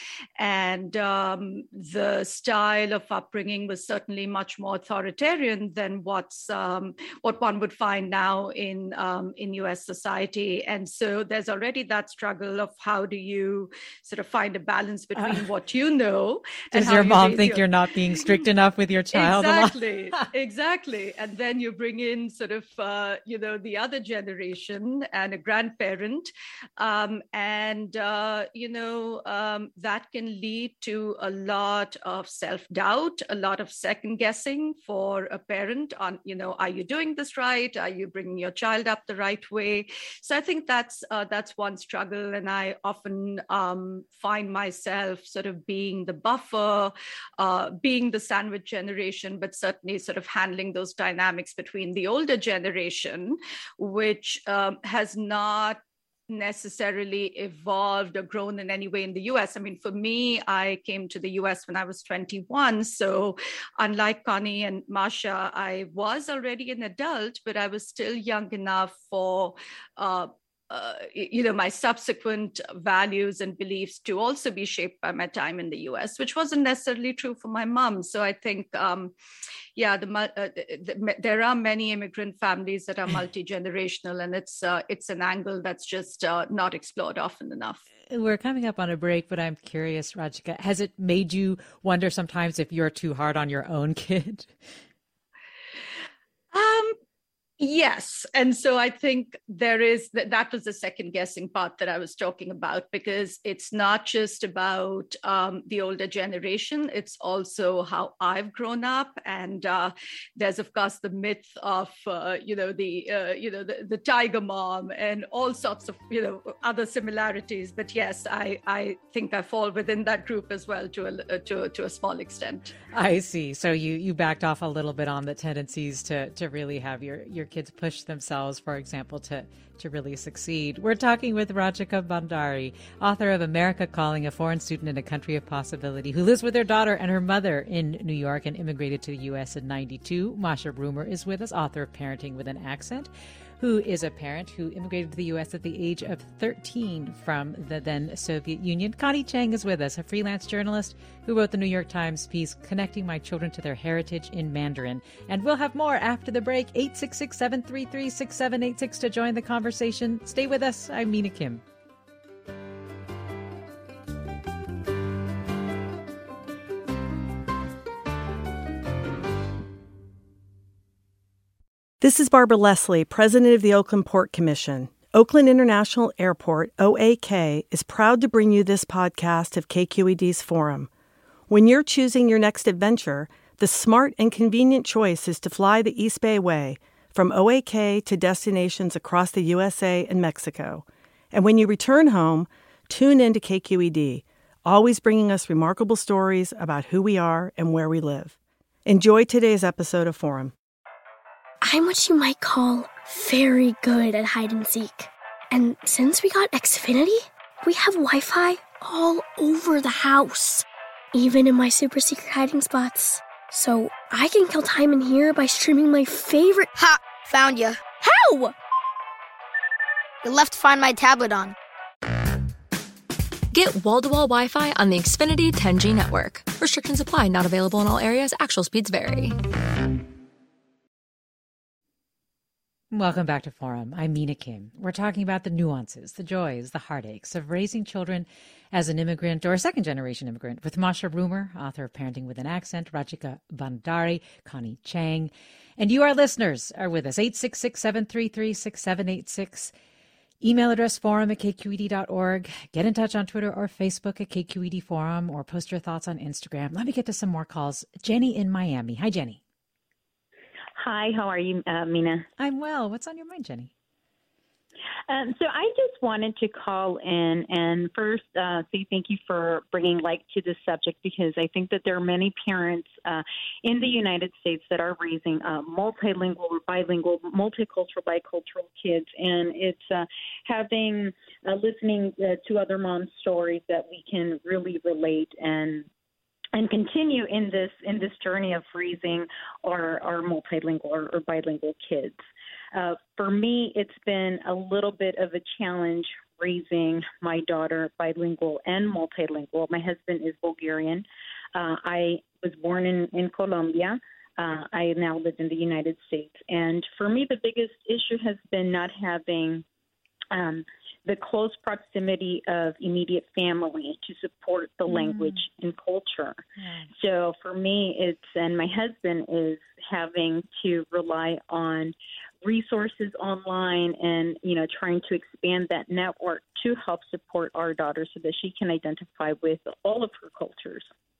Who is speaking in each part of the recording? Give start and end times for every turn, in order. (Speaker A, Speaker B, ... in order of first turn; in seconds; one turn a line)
Speaker A: 0.4-17.7
Speaker B: 15.2-15.4
Speaker B: 16.7-20.2
Speaker A: 19.1-79.1
Speaker A: 79.8-87.8
Speaker B: 88.1-94.5
Speaker A: 96.5-97.0
Speaker A: 97.6-122.7
Speaker B: 122.9-161.6
Speaker C: 172.0-180.9
Speaker C: 181.5-198.3
Speaker C: 198.8-200.5
Speaker D: 201.6-216.7
Speaker E: 216.8-217.8
Speaker D: 218.0-218.5
Speaker E: 220.2-221.5
Speaker F: 223.5-229.3
Speaker B: 232.9-249.7
Speaker B: 250.4-259.4
Speaker G: 260.8-262.3
Speaker B: 262.4-263.7
Speaker G: 265.1-285.9
Speaker G: 286.5-292.2
Speaker G: 292.7-309.6
Speaker G: 310.3-316.4
Speaker B: 314.9-315.4
Speaker B: 316.6-316.9
Speaker G: 316.9-330.9